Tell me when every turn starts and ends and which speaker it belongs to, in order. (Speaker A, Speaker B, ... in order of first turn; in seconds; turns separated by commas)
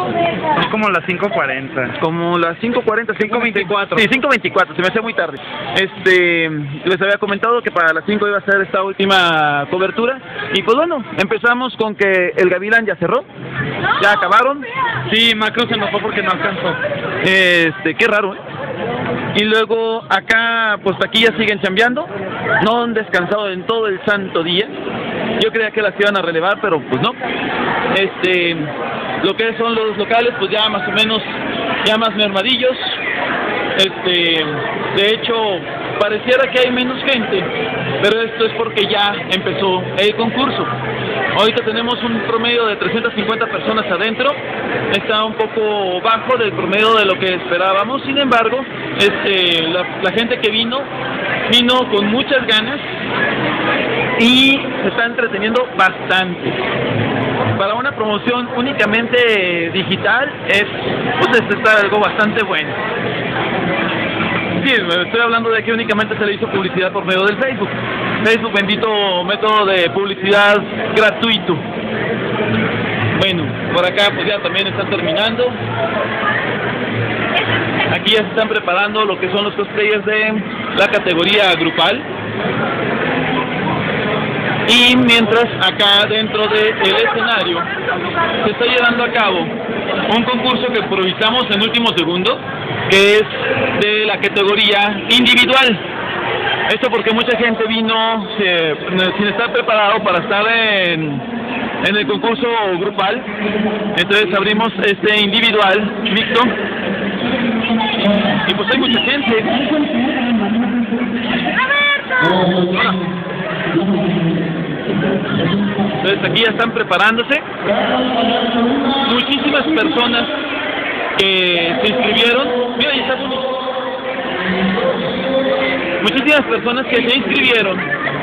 Speaker A: 0.6-1.9, Speaker B: 2.0-13.3, Speaker A: 3.2-4.0, Speaker B: 14.0-14.7, Speaker A: 15.1-16.8, Speaker B: 17.2-18.4, Speaker B: 19.4-24.7, Speaker B: 25.4-27.2, Speaker B: 27.9-28.7, Speaker B: 29.2-31.3, Speaker B: 31.8-33.0, Speaker B: 33.8-37.5, Speaker B: 38.0-40.7, Speaker B: 41.3-44.4, Speaker B: 44.9-50.9, Speaker B: 51.5-52.8, Speaker B: 54.2-56.6, Speaker B: 57.5-62.8, Speaker B: 64.6-71.6, Speaker B: 73.1-75.6, Speaker B: 77.9-82.1, Speaker B: 84.7-87.7, Speaker B: 88.4-89.5, Speaker B: 90.1-95.8, Speaker B: 96.7-101.2, Speaker B: 101.8-103.3, Speaker B: 103.9-106.5, Speaker B: 108.5-109.6, Speaker B: 112.5-113.0, Speaker B: 116.0-117.5, Speaker B: 119.0-120.3, Speaker B: 121.2-123.6, Speaker B: 126.0-127.9